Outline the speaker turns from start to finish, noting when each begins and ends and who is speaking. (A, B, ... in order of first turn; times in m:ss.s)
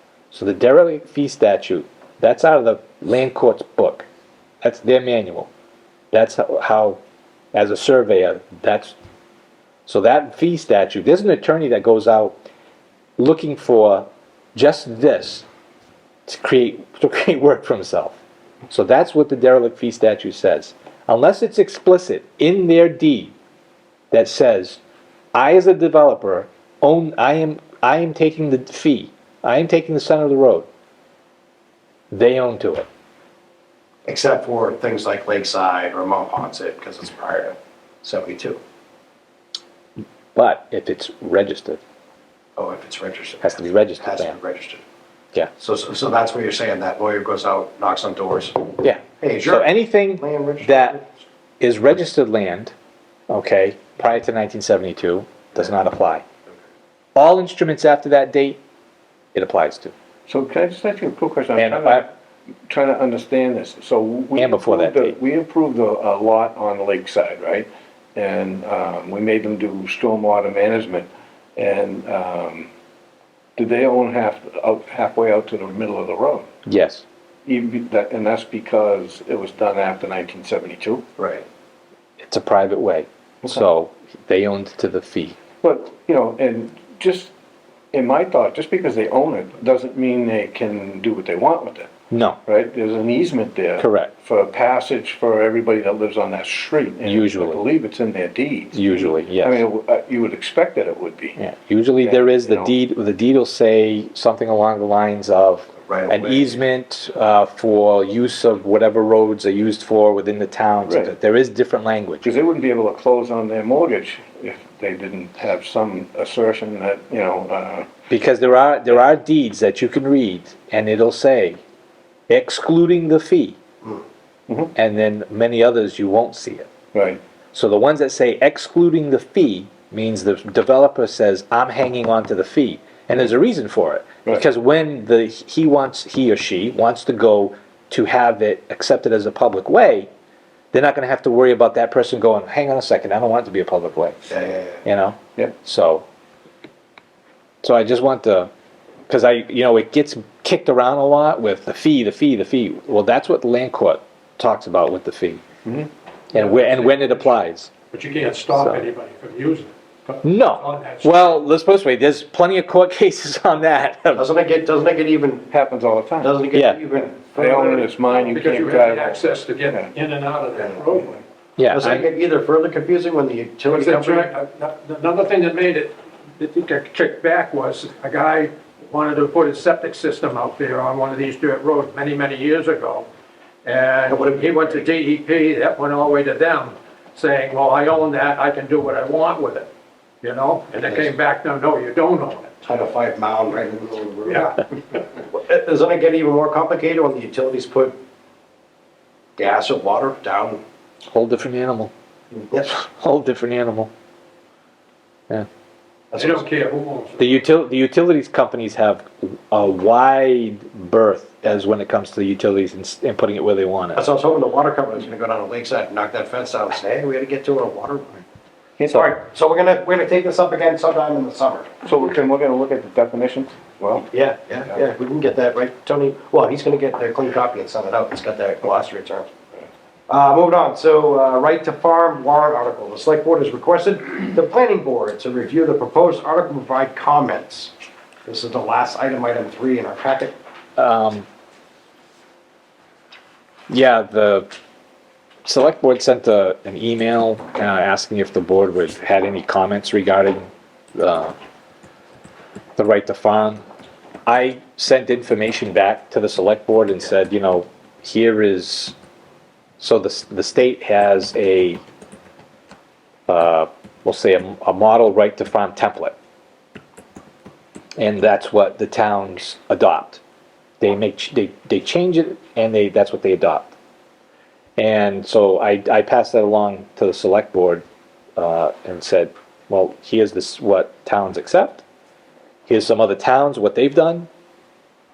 0:00.3-0:04.0 A
0:04.6-0:05.5 A
0:06.1-0:07.0 A
0:07.5-0:08.9 A
0:09.9-0:12.4 A
0:13.2-0:15.4 A
0:16.3-0:18.2 A
0:18.7-0:23.3 A
0:24.1-0:24.8 A
0:25.3-0:30.7 A
0:32.1-0:32.9 A
0:34.1-0:38.6 B
0:40.3-0:41.8 A
0:42.6-0:44.8 B
0:43.4-0:44.3 A
0:45.6-0:51.0 B
0:48.8-0:51.0 A
0:51.6-0:52.7 A
0:53.3-0:56.2 A
0:57.2-0:58.6 A
0:59.3-0:59.9 A
1:00.3-1:02.1 C
1:01.6-1:02.0 A
1:02.7-1:12.7 C
1:04.4-1:05.2 A
1:13.6-1:16.5 C
1:16.6-1:17.0 A
1:17.4-1:21.3 C
1:22.2-1:25.4 A
1:25.6-1:27.3 C
1:27.9-1:31.9 C
1:32.1-1:32.4 A
1:32.4-1:41.4 C
1:33.8-1:34.1 A
1:37.0-1:37.6 A
1:38.7-1:39.6 A
1:41.4-1:52.3 A
1:42.0-1:42.7 C
1:45.9-1:46.5 B
1:50.8-1:51.1 C
1:52.2-1:57.9 C
1:58.1-2:01.6 A
2:02.3-2:03.6 A
2:04.7-2:06.7 A
2:06.9-2:07.2 C
2:07.5-2:20.1 A
2:20.7-2:26.0 A
2:24.4-2:24.6 B
2:27.6-2:28.5 A
2:29.1-2:35.4 A
2:35.6-2:35.9 C
2:36.3-2:37.7 A
2:36.3-2:37.3 D
2:37.9-2:41.3 D
2:38.5-2:38.8 A
2:40.2-2:44.3 A
2:44.1-2:45.5 B
2:45.5-2:46.4 C
2:46.2-2:47.8 B
2:46.5-2:46.8 A
2:47.3-2:49.9 C
2:48.0-2:51.2 D
2:51.6-2:52.0 A
2:51.7-2:54.3 B
2:53.7-3:03.1 D
3:03.6-3:09.7 D
3:04.1-3:04.8 B
3:10.2-3:12.6 D
3:12.6-3:18.0 B
3:14.3-3:14.6 D
3:19.4-3:20.6 B
3:21.1-3:21.9 A
3:22.6-3:23.9 A
3:26.1-3:26.4 B
3:26.1-3:27.4 D
3:27.2-3:34.0 A
3:33.9-3:38.2 B
3:38.8-3:39.1 C
3:38.9-3:41.8 B
3:41.8-3:44.1 C
3:44.1-3:49.3 B
3:50.1-3:57.7 B
3:58.2-4:00.3 B
4:00.8-4:01.2 A
4:03.7-4:04.5 A
4:05.4-4:11.3 A
4:12.8-4:13.6 A
4:14.3-4:18.9 A
4:19.8-4:21.8 A
4:23.3-4:26.1 A
4:28.0-4:30.2 A
4:30.8-4:33.7 A
4:34.8-4:37.8 A
4:38.4-4:41.8 A
4:42.7-4:44.3 A